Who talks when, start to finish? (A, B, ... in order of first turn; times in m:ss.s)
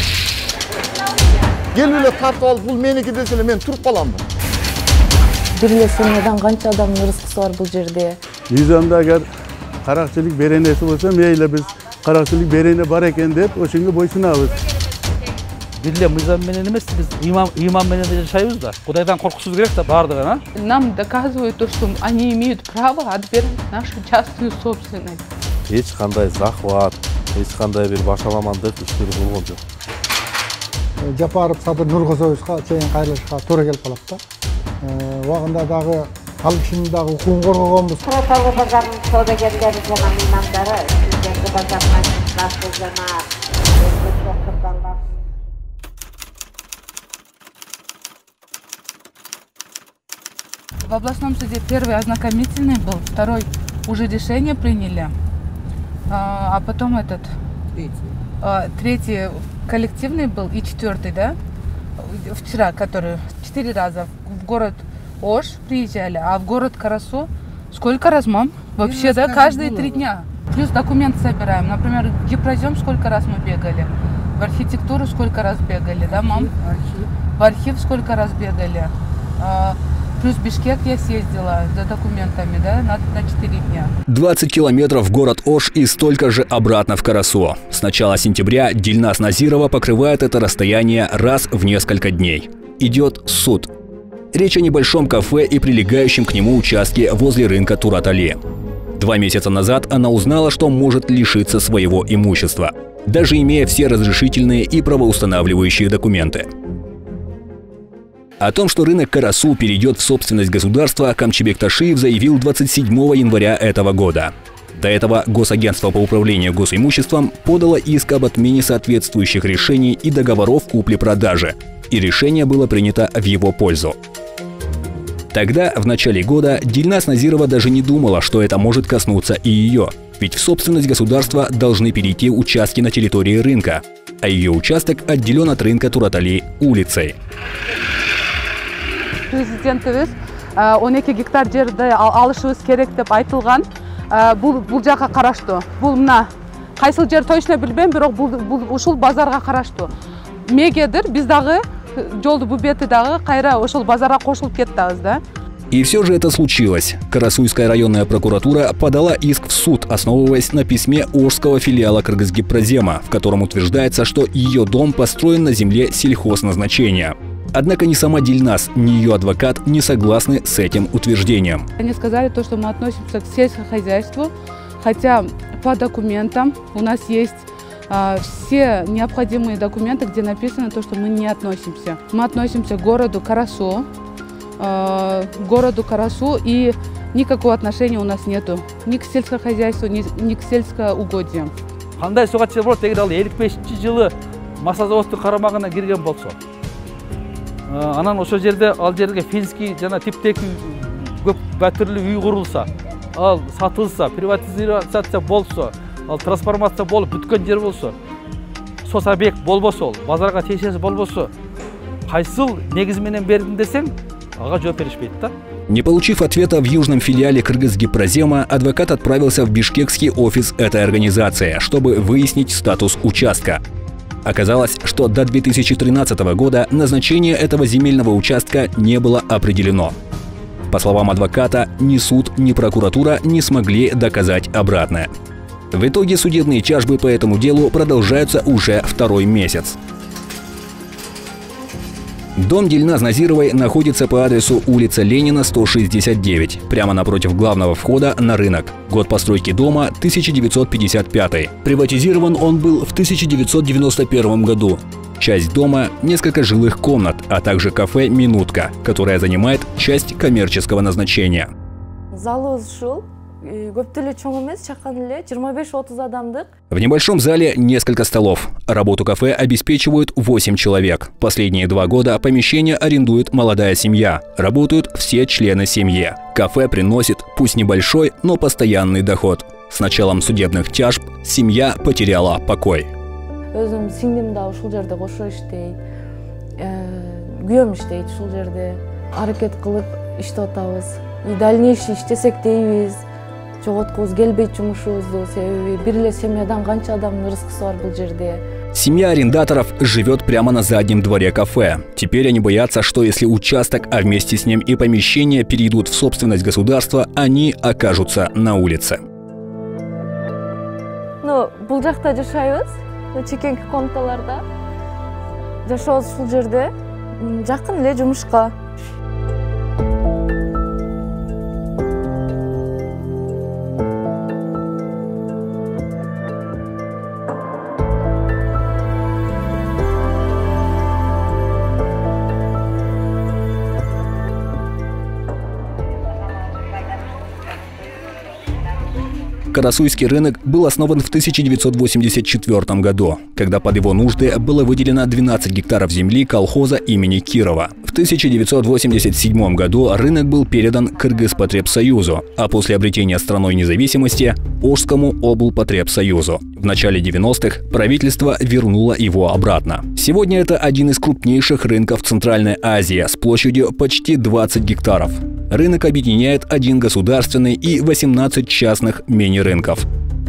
0:01.7-0:04.2 A
0:05.6-0:08.2 B
0:08.5-0:09.3 C
0:09.8-0:14.5 C
0:15.8-0:20.4 D
0:20.6-0:25.2 E
0:25.7-0:29.6 F
0:31.0-0:34.2 G
0:34.8-0:38.0 G
0:38.1-0:43.1 H
0:43.9-0:44.9 H
0:50.8-0:55.1 E
0:56.1-0:57.3 E
0:58.4-1:01.4 E
1:02.0-1:16.5 E
1:17.4-1:23.9 E
1:24.1-1:33.7 I
1:34.3-1:38.4 I
1:39.0-1:46.5 I
1:48.4-2:04.0 I
2:05.3-2:17.2 I
2:19.3-2:29.9 E
2:30.5-2:35.2 E
2:35.7-2:51.7 I
2:51.8-3:03.9 E
3:04.6-3:11.5 E
3:12.0-3:16.4 D
3:17.7-3:28.0 D
3:28.8-3:31.3 D
3:32.1-3:35.3 D
3:35.7-3:43.6 I
3:44.2-3:49.9 I
3:50.7-3:55.1 I
3:55.7-3:59.8 I
4:02.4-4:21.5 I
4:22.1-4:26.5 B
4:26.7-4:42.9 I
4:43.5-4:45.8 B
4:46.6-4:53.0 B
4:53.6-4:58.4 B
4:58.7-5:09.0 I
5:11.2-5:14.4 B
5:15.6-5:18.6 B
5:39.5-6:09.9 I